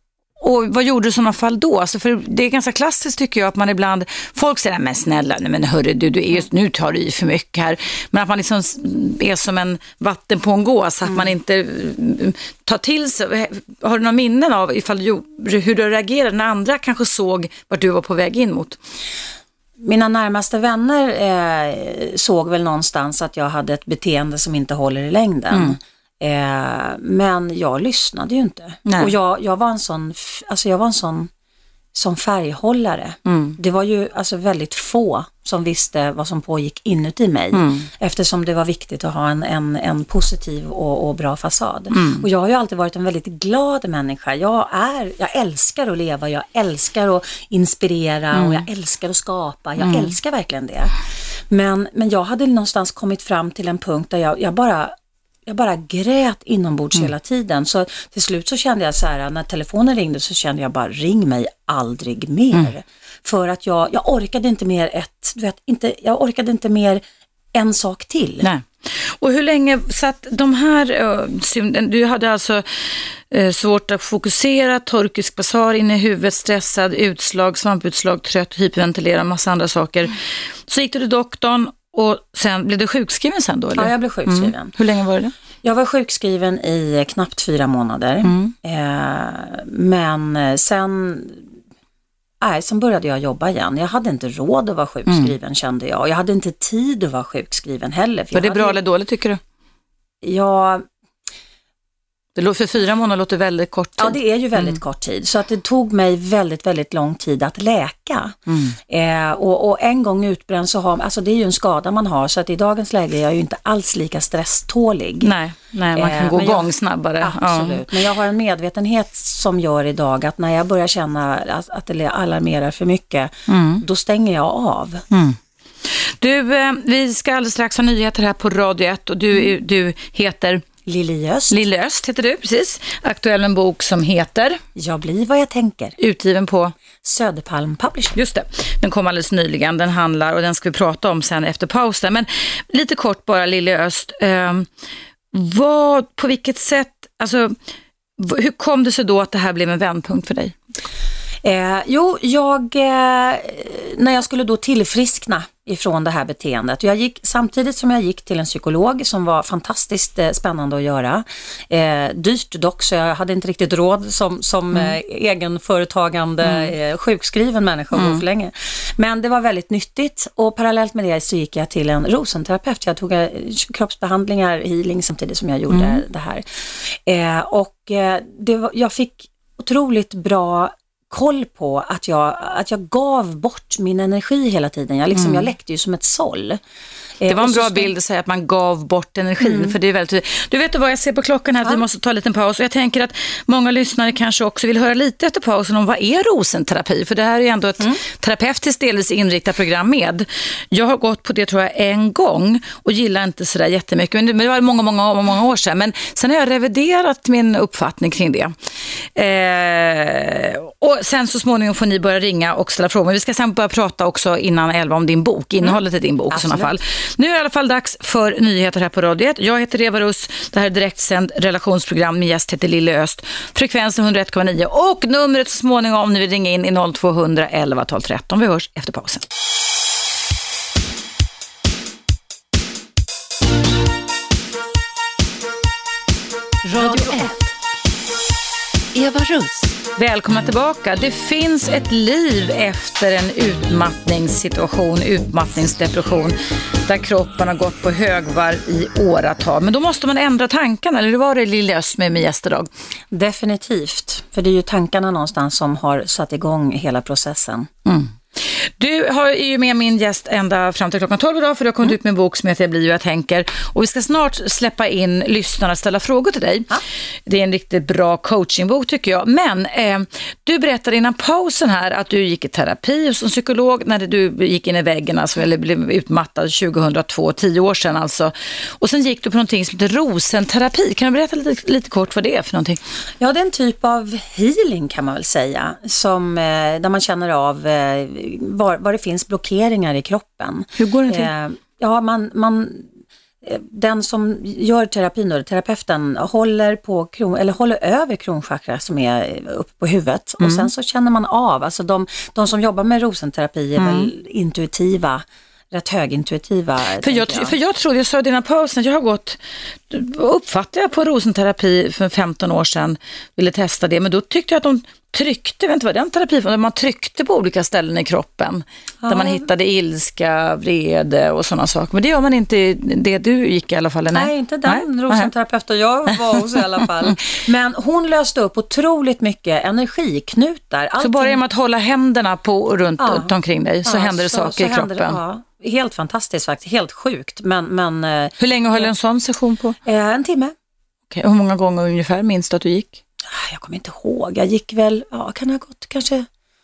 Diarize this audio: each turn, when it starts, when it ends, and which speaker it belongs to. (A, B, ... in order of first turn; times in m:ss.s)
0:00.4-0:18.8 A
0:19.8-0:31.3 B
0:25.5-0:25.8 A
0:28.8-0:29.1 A
0:31.9-0:50.9 B
0:33.3-0:33.6 A
0:37.5-0:37.9 A
0:41.9-0:42.3 A
0:48.3-0:48.7 A
0:49.8-0:50.1 A
0:51.5-0:54.9 B
0:55.5-1:07.0 B
1:07.5-1:08.5 B
1:08.4-1:25.3 A
1:23.8-1:24.7 B
1:25.6-1:31.4 B
1:28.2-1:28.6 A
1:32.4-1:38.8 B
1:38.3-1:39.4 A
1:40.2-1:40.8 B
1:42.4-1:44.8 A
1:44.0-1:48.4 B
1:48.5-1:48.8 A
1:48.9-1:55.3 B
1:55.2-1:57.9 A
1:55.9-2:05.1 B
2:03.5-2:03.8 A
2:05.1-2:10.6 A
2:10.8-2:11.6 B
2:11.5-2:14.6 A
2:14.8-2:16.0 B
2:16.0-2:16.7 A
2:17.0-2:18.2 B
2:18.2-2:24.7 A
2:25.3-2:27.6 A
2:28.2-2:30.6 A
2:31.4-3:06.6 B
2:46.4-2:46.7 A
2:47.9-2:48.2 A
2:55.7-2:56.0 A
3:05.1-3:05.5 A
3:07.2-3:07.9 B
3:07.3-3:49.2 A
3:09.4-3:09.7 B
3:36.3-3:36.7 B
3:56.6-3:57.5 A
3:58.9-4:12.7 A
4:13.1-4:17.7 B
4:17.9-4:42.8 A
4:43.2-4:52.9 B
4:50.8-4:51.3 A
4:53.4-5:07.5 B
5:00.4-5:00.7 A
5:03.8-5:04.1 A
5:07.0-5:25.3 A
5:19.0-5:19.4 B
5:24.1-5:31.4 B
5:26.3-5:27.1 A
5:31.0-5:35.2 A
5:33.0-5:33.3 B
5:33.8-5:38.9 B
5:38.4-5:39.8 A
5:39.8-5:40.5 B
5:41.1-5:43.0 A
5:43.3-5:46.3 B